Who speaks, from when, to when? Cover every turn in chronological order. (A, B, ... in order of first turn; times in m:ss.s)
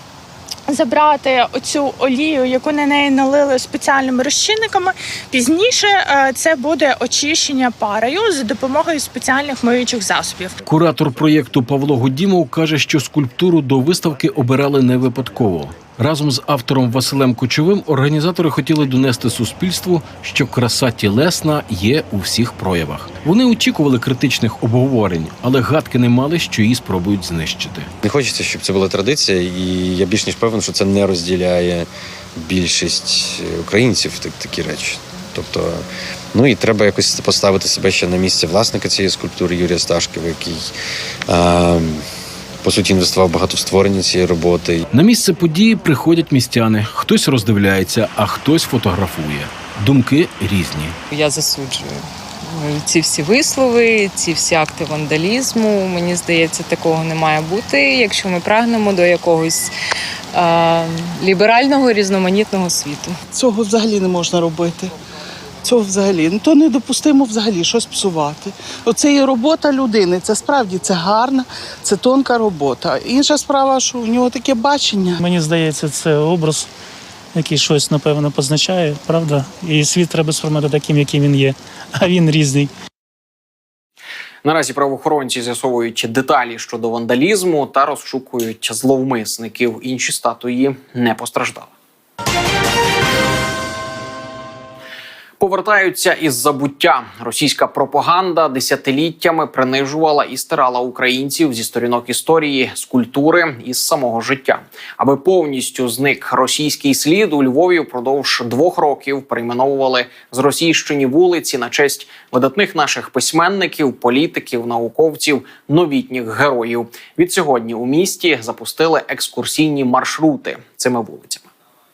0:00.7-0:10.5 A
0:10.7-0:27.9 B
0:28.0-0:40.7 C
0:41.3-0:42.0 C
0:42.6-0:44.8 C
0:44.9-0:51.0 B
0:51.1-0:52.0 D
0:52.5-0:59.7 D
1:00.4-1:03.1 D
1:03.3-1:04.9 E
1:05.6-1:15.2 E
1:15.2-1:16.7 F
1:17.4-1:22.7 F
1:24.4-1:31.7 G
1:35.4-2:01.5 G